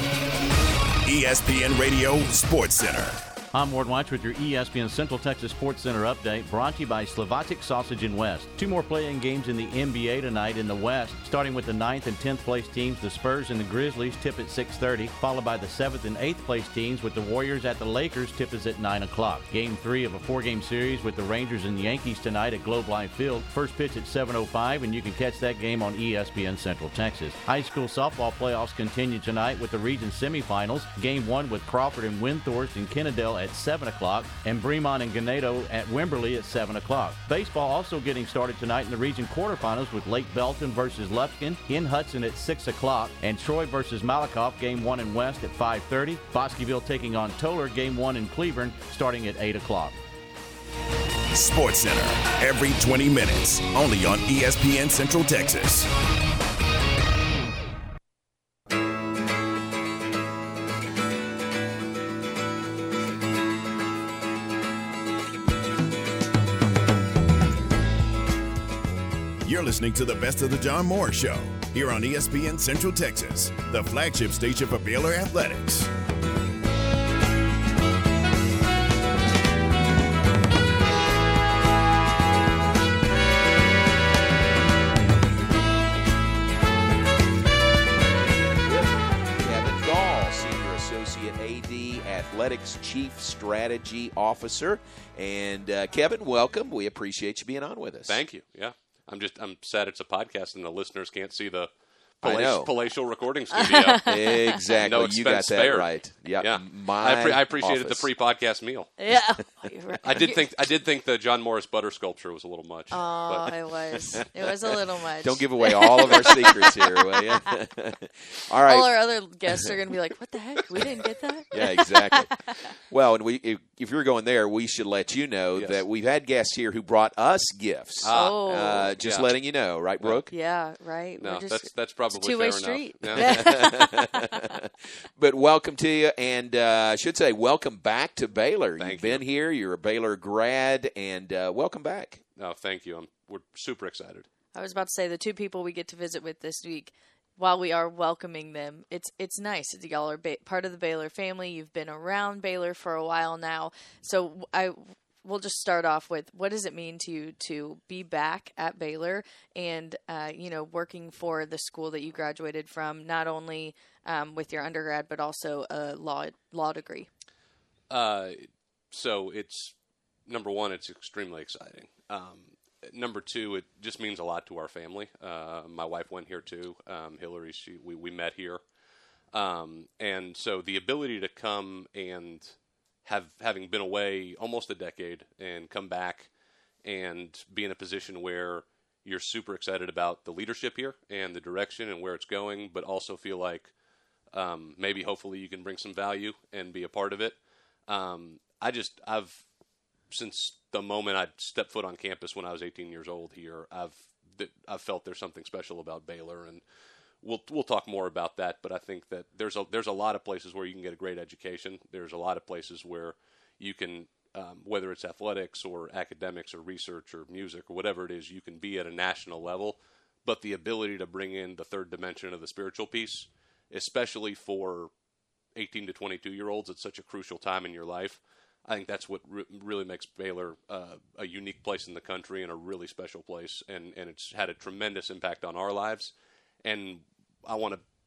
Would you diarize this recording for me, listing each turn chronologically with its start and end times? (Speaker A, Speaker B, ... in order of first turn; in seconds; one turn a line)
Speaker A: 1.0-3.2
Speaker B: 3.5-50.0
Speaker A: 51.3-55.9
Speaker A: 69.4-75.9
Speaker C: 88.6-98.2
Speaker D: 98.1-101.7
Speaker C: 102.2-102.7
Speaker D: 102.2-108.9
Speaker E: 103.5-104.7
Speaker C: 104.0-108.1
Speaker E: 109.0-110.5
Speaker D: 110.0-113.5
Speaker E: 112.9-117.5
Speaker C: 114.1-114.5
Speaker C: 115.2-119.0
Speaker E: 118.6-122.4
Speaker C: 119.5-119.8
Speaker C: 120.6-122.3
Speaker C: 122.9-130.3
Speaker D: 125.5-125.8
Speaker D: 128.0-129.3
Speaker E: 128.1-128.9
Speaker E: 130.3-134.3
Speaker D: 131.2-133.6
Speaker C: 133.1-134.6
Speaker C: 135.2-142.2
Speaker D: 138.8-139.2
Speaker D: 142.3-144.3
Speaker E: 144.5-167.1
Speaker D: 167.9-169.7
Speaker D: 170.3-178.6
Speaker D: 179.3-186.3
Speaker D: 186.8-193.7
Speaker D: 194.3-197.4
Speaker D: 197.9-199.4
Speaker D: 200.1-206.6
Speaker D: 207.2-224.9
Speaker D: 225.6-236.1
Speaker D: 236.6-237.8